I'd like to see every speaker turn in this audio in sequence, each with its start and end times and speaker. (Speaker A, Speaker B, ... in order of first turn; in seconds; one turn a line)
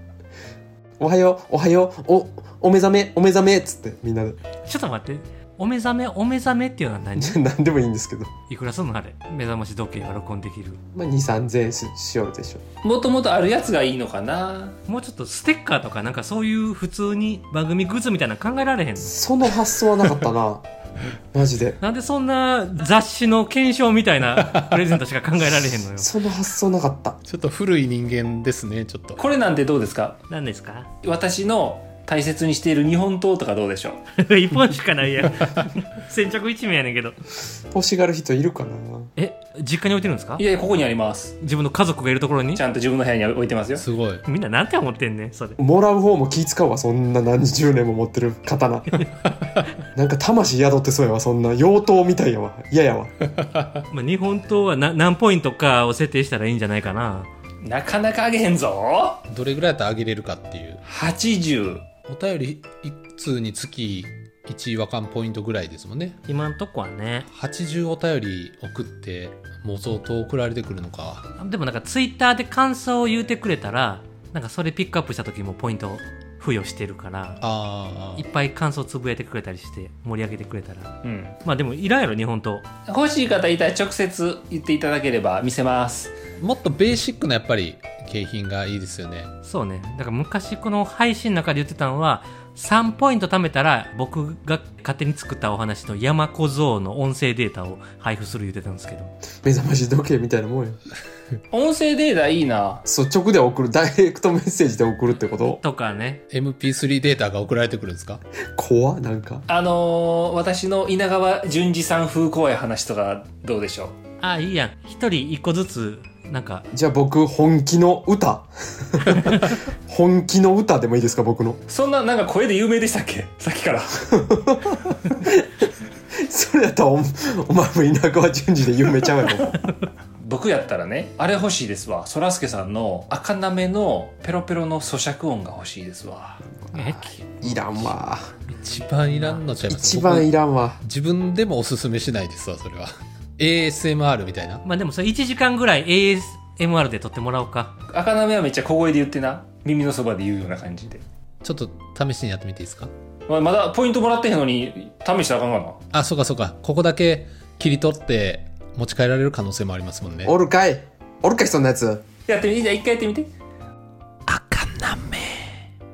Speaker A: 1.0-4.4
Speaker B: 4.7-7.4
Speaker A: 7.2-8.3
Speaker B: 8.5-10.8
Speaker A: 10.9-12.6
Speaker C: 12.8-14.8
Speaker B: 14.9-19.2
Speaker A: 19.0-20.6
Speaker A: 21.3-21.8
Speaker B: 21.8-26.1
Speaker D: 24.4-24.8
Speaker A: 26.0-27.2
Speaker D: 27.2-29.2
Speaker C: 29.2-30.2
Speaker B: 30.3-30.9
Speaker C: 31.0-34.0
Speaker B: 34.2-37.1
Speaker A: 37.7-39.1
Speaker B: 39.1-40.4
Speaker C: 40.4-41.4
Speaker B: 41.4-42.6
Speaker C: 42.5-43.8
Speaker D: 43.7-44.2
Speaker B: 44.2-45.6
Speaker A: 45.6-48.9
Speaker A: 49.9-53.1
Speaker B: 53.9-57.3
Speaker C: 57.6-59.2
Speaker D: 59.3-60.8
Speaker C: 60.8-61.8
Speaker D: 62.0-66.2
Speaker B: 66.3-67.2
Speaker D: 67.3-71.3
Speaker B: 71.4-77.4
Speaker D: 77.4-78.2
Speaker B: 78.1-80.9
Speaker C: 81.0-81.3
Speaker B: 81.4-82.6
Speaker C: 82.9-86.2
Speaker D: 86.4-89.3
Speaker B: 89.4-99.1
Speaker A: 99.4-100.8
Speaker C: 101.5-102.8
Speaker A: 102.8-105.6
Speaker B: 105.4-106.2
Speaker D: 106.3-108.2
Speaker A: 108.5-109.4
Speaker C: 109.5-114.0
Speaker B: 114.2-116.7
Speaker A: 116.7-121.6
Speaker C: 121.7-124.1
Speaker A: 124.1-125.4
Speaker A: 126.2-129.6
Speaker C: 130.2-136.4
Speaker A: 136.7-138.3
Speaker B: 136.7-137.2
Speaker D: 137.4-138.0
Speaker D: 138.5-144.6
Speaker B: 139.1-139.4
Speaker A: 139.7-140.8
Speaker B: 144.6-147.7
Speaker C: 147.9-151.0
Speaker D: 151.4-152.9
Speaker C: 153.3-155.8
Speaker D: 155.9-160.3
Speaker A: 160.2-162.0
Speaker C: 162.3-163.3
Speaker D: 164.3-165.6